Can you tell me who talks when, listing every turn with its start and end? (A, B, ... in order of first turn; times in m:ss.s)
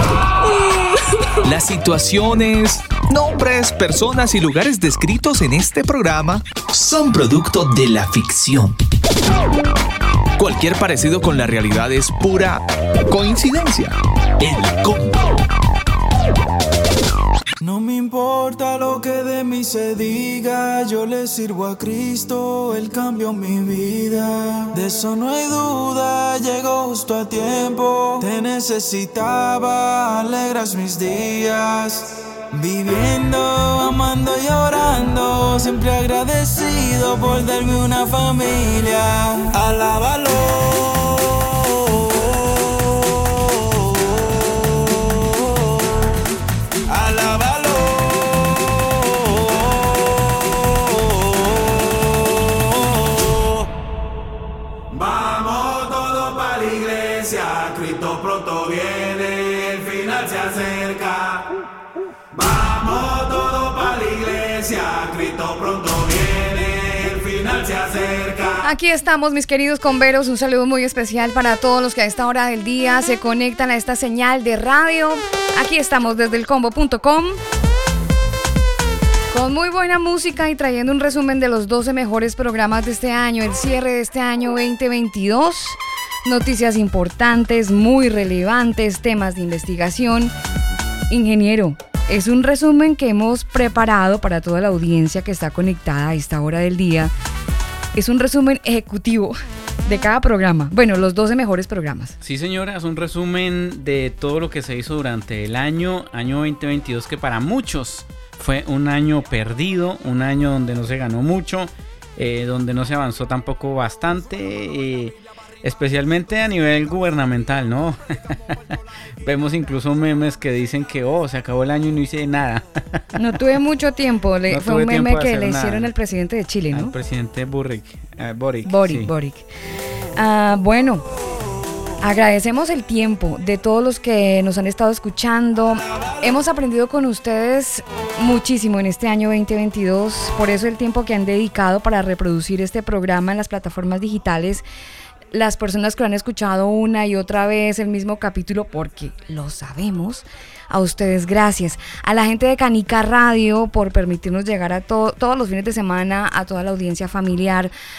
0:01.4-0:08.8 A
0:10.4-0:15.4 A
0:17.6-0:42.0 B
0:46.9-0:48.6 B
1:02.5-1:08.5 A
1:08.6-1:17.4 C
1:19.3-1:30.3 C
1:31.1-1:37.1 C
1:37.9-1:42.2 C
1:42.2-2:03.0 D
2:03.2-2:06.9 C
2:04.5-2:05.9 D
2:06.7-2:09.1 D
2:08.6-2:09.4 C
2:10.1-2:11.0 C
2:12.0-2:24.6 C
2:25.3-2:37.7 C